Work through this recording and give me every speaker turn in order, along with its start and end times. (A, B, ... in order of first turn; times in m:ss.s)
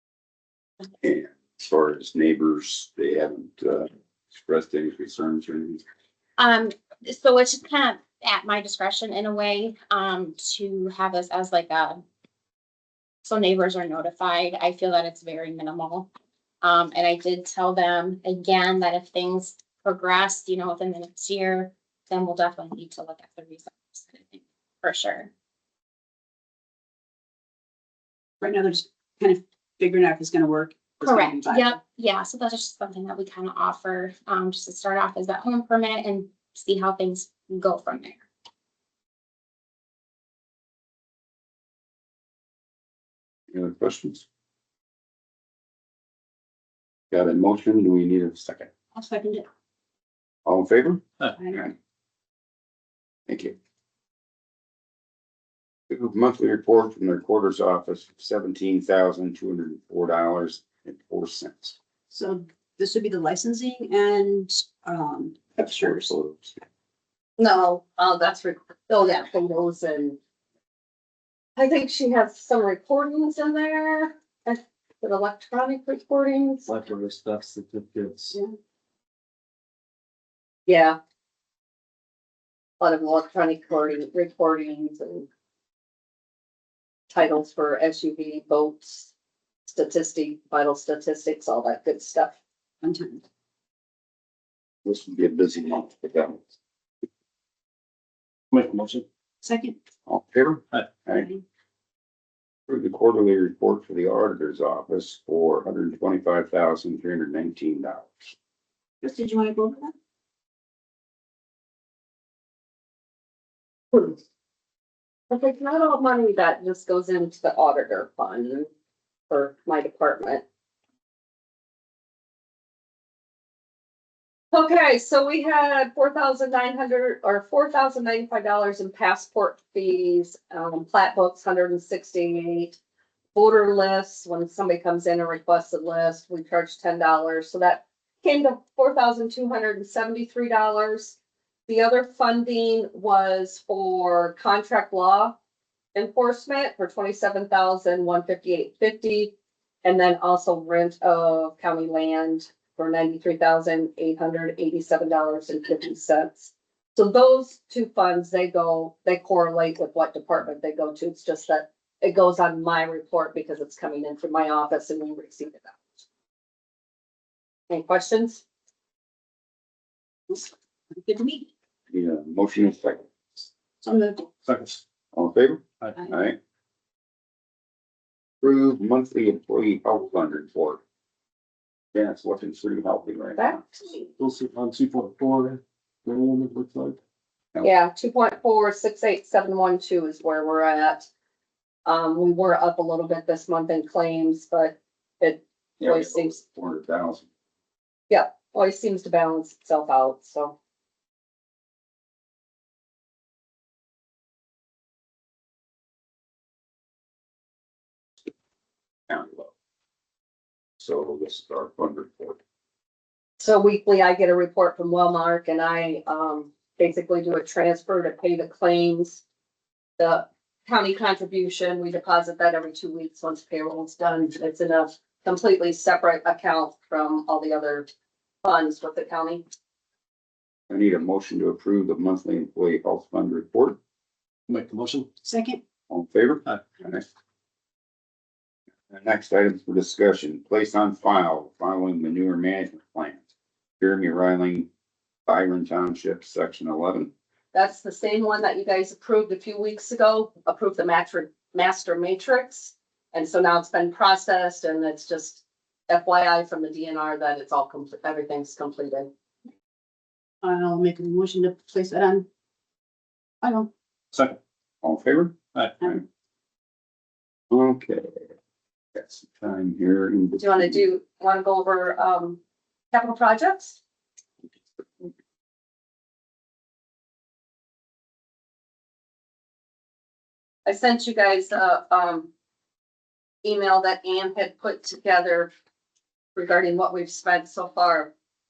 0:01.0-0:05.8 A
0:06.4-0:12.0 B
0:13.2-0:16.1 B
0:16.6-0:25.3 B
0:28.4-0:31.8 C
0:31.0-0:38.2 B
0:43.5-0:44.2 A
0:47.1-0:48.7 A
0:48.9-0:49.5 C
0:50.4-0:51.0 A
0:51.4-0:51.7 C
0:53.3-0:53.6 A
0:55.9-1:01.8 A
1:02.1-1:06.1 C
1:05.6-1:06.6 A
1:07.4-1:10.2 D
1:11.6-1:16.7 D
1:16.7-1:18.4 E
1:20.7-1:21.0 D
1:22.8-1:25.3 D
1:27.1-1:29.1 D
1:29.7-1:32.4 D
1:32.8-1:33.2 C
1:34.8-1:36.5 A
1:38.5-1:39.0 E
1:39.4-1:39.8 C
1:40.1-1:41.3 A
1:42.7-1:48.3 A
1:49.0-1:49.9 C
1:55.3-1:58.7 D
1:59.3-2:00.4 D
2:04.5-2:12.8 D
2:13.3-2:21.2 D
2:21.7-2:25.4 D
2:25.9-2:29.3 D
2:29.8-2:45.8 D
2:47.7-2:48.4 D
2:50.3-2:51.5 C
2:51.9-2:53.0 A
2:53.8-2:54.3 C
2:54.4-2:54.8 E
2:55.1-2:56.4 A
2:58.4-3:00.8 A
3:01.9-3:03.6 A
3:03.4-3:04.1 D
3:04.2-3:07.0 E
3:07.6-3:11.1 D
3:11.8-3:16.4 D
3:15.8-3:17.2 A
3:18.1-3:20.5 D
3:29.1-3:29.5 A
3:30.8-3:32.4 A
3:33.4-3:39.2 D
3:40.0-3:47.9 D
3:48.4-3:49.4 D
3:50.7-3:53.8 A
3:54.5-3:55.1 E
3:55.2-3:55.6 C
3:55.9-3:57.0 A
3:58.9-4:03.2 A
4:03.8-4:04.7 A
4:05.3-4:07.1 A
4:07.5-4:19.1 D
4:20.4-4:22.2 C
4:23.4-4:23.7 C
4:24.1-4:24.4 E
4:24.8-4:25.4 A
4:25.5-4:25.9 E
4:27.5-4:28.2 A
4:28.9-4:30.8 A
4:30.4-4:32.4 D
4:32.9-4:33.8 D
4:40.6-4:42.3 D
4:43.4-4:45.5 D
4:46.3-4:48.1 D